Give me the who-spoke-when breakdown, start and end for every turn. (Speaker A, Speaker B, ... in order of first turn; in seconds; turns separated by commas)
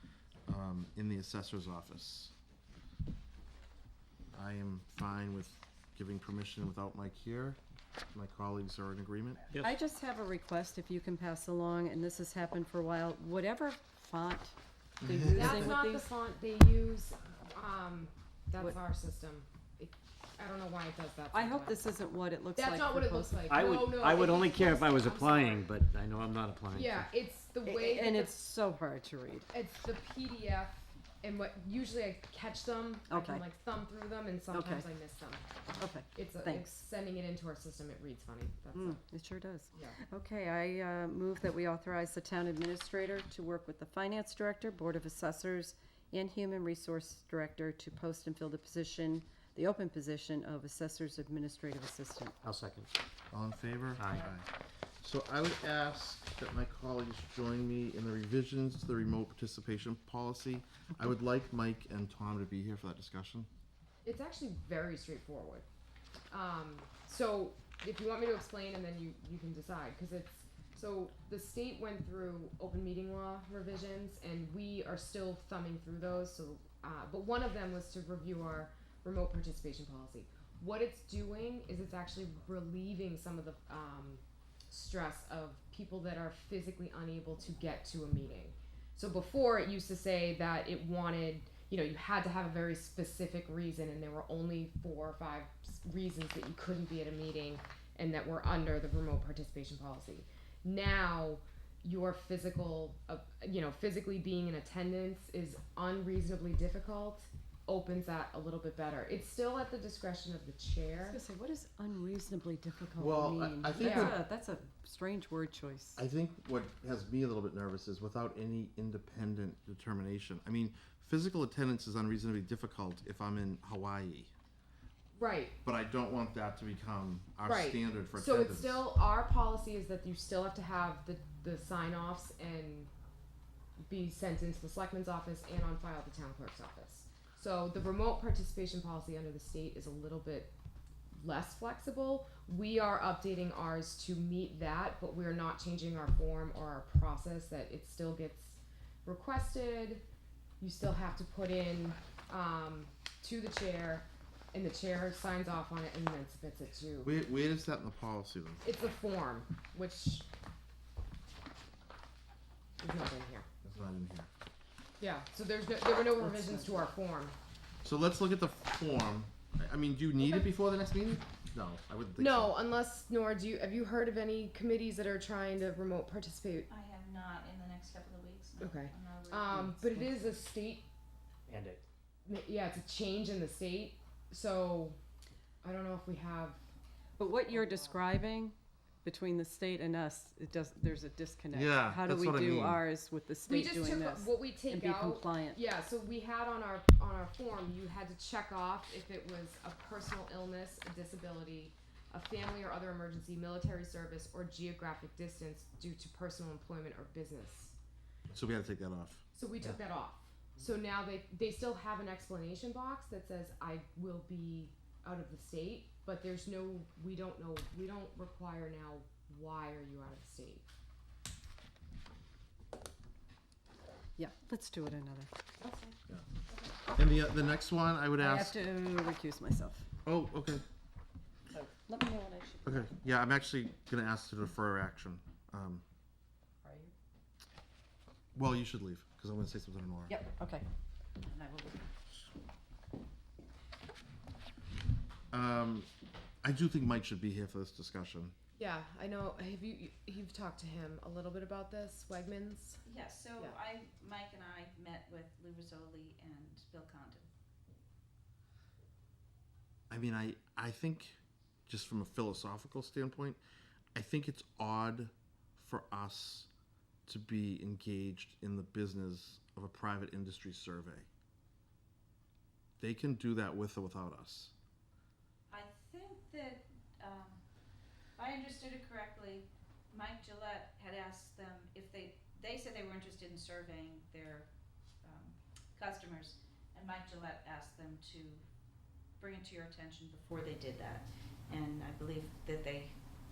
Speaker A: 0.5-2.3, Speaker A: 4.3-7.6, Speaker A: 8.1-9.4, Speaker B: 9.6-16.1, Speaker A: 15.0-15.7, Speaker C: 15.2-21.8, Speaker B: 21.3-23.9, Speaker C: 22.5-25.7, Speaker D: 23.5-27.1, Speaker C: 26.7-28.4, Speaker B: 27.6-29.5, Speaker C: 29.5-35.4, Speaker B: 33.1-33.4, Speaker B: 34.5-34.9, Speaker B: 35.8-36.8, Speaker C: 36.1-39.0, Speaker B: 38.7-52.4, Speaker D: 52.4-52.9, Speaker A: 53.3-54.5, Speaker D: 54.0-54.2, Speaker A: 55.0-63.5, Speaker C: 64.0-65.6, Speaker C: 66.3-111.2, Speaker B: 111.0-116.0, Speaker A: 113.0-114.2, Speaker C: 113.8-114.2, Speaker A: 116.0-124.3, Speaker C: 125.1-125.6, Speaker A: 125.6-128.9, Speaker C: 127.4-132.9, Speaker C: 133.8-140.5, Speaker C: 141.1-150.0, Speaker C: 150.6-157.1, Speaker A: 157.0-158.6, Speaker C: 158.6-160.3, Speaker C: 162.8-163.5, Speaker A: 163.6-164.3, Speaker C: 165.0-167.3, Speaker B: 166.2-166.8, Speaker A: 167.8-172.6, Speaker C: 172.2-176.7, Speaker E: 176.7-180.4, Speaker C: 178.6-180.8, Speaker D: 181.5-181.8, Speaker C: 182.2-185.0, Speaker C: 185.6-186.6, Speaker B: 187.2-195.6, Speaker E: 187.4-188.0, Speaker A: 191.5-192.8, Speaker C: 193.4-207.8, Speaker A: 208.3-209.2, Speaker C: 209.3-220.7, Speaker B: 224.2-225.3, Speaker E: 225.6-226.0, Speaker A: 226.9-228.5, Speaker B: 228.2-229.9, Speaker A: 230.0-230.6, Speaker B: 231.5-232.7, Speaker A: 232.6-235.8, Speaker B: 236.6-236.9, Speaker A: 238.3-240.2, Speaker B: 240.1-240.6, Speaker E: 241.4-241.6, Speaker A: 245.3-245.9, Speaker A: 246.4-248.3, Speaker C: 248.6-252.8, Speaker E: 252.8-257.3, Speaker A: 259.9-263.4, Speaker A: 263.9-266.5, Speaker A: 267.1-271.1, Speaker A: 272.8-274.5, Speaker E: 275.5-277.4, Speaker E: 278.1-284.5, Speaker E: 285.0-288.4, Speaker E: 289.2-292.9